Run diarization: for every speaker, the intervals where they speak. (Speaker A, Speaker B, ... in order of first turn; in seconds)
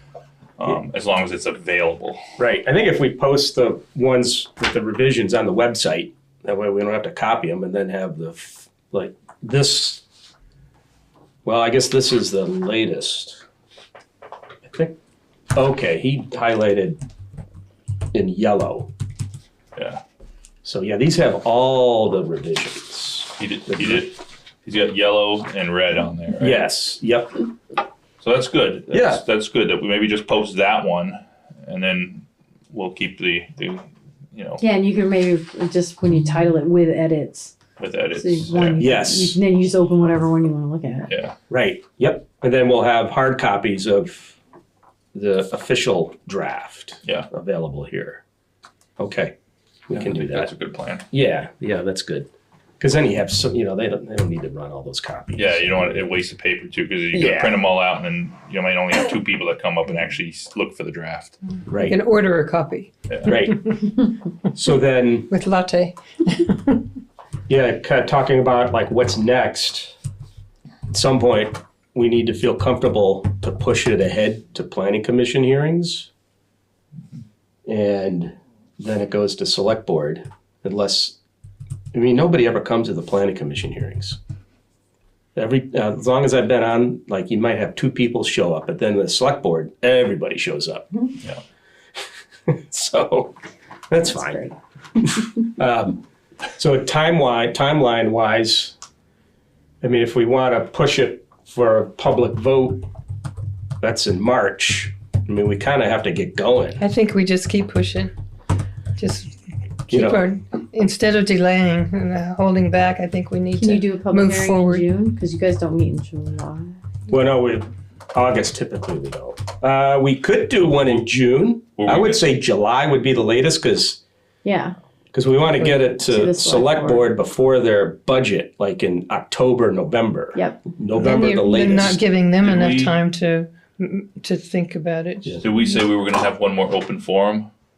Speaker A: 0.6-2.2, 19.8-20.0, 23.4-26.6, 28.2-34.6, 37.8-38.8, 41.1-41.3, 49.9-51.1, 55.4-61.4, 121.8-122.3, 132.4-132.9, 135.4-137.5
Speaker B: 2.4-10.0, 11.4-13.4, 14.7-15.0, 15.5-17.0, 18.1-18.9, 20.6-24.1, 26.4-27.4, 28.9-29.2, 38.8-39.4, 41.5-44.4, 45.1-48.2, 49.0-49.3, 49.9-50.5, 51.1-52.3, 52.8-56.0, 57.1-57.6, 61.7-62.0, 63.3-63.6, 64.5-65.3, 67.5-70.0, 70.9-76.1, 77.7-81.2, 81.9-84.2, 85.4-90.9, 92.5-93.4, 93.9-94.4, 95.0-96.0, 96.6-98.8, 99.8-102.8, 103.8-106.8, 109.9-110.2, 117.1-124.0, 125.1-132.0
Speaker C: 34.6-37.5, 38.1-41.1, 94.0-94.5, 113.5-116.8, 124.4-124.8, 125.5-127.1
Speaker D: 61.8-63.4, 65.3-66.8, 106.8-108.1, 109.0-109.3, 109.9-114.8, 131.0-135.6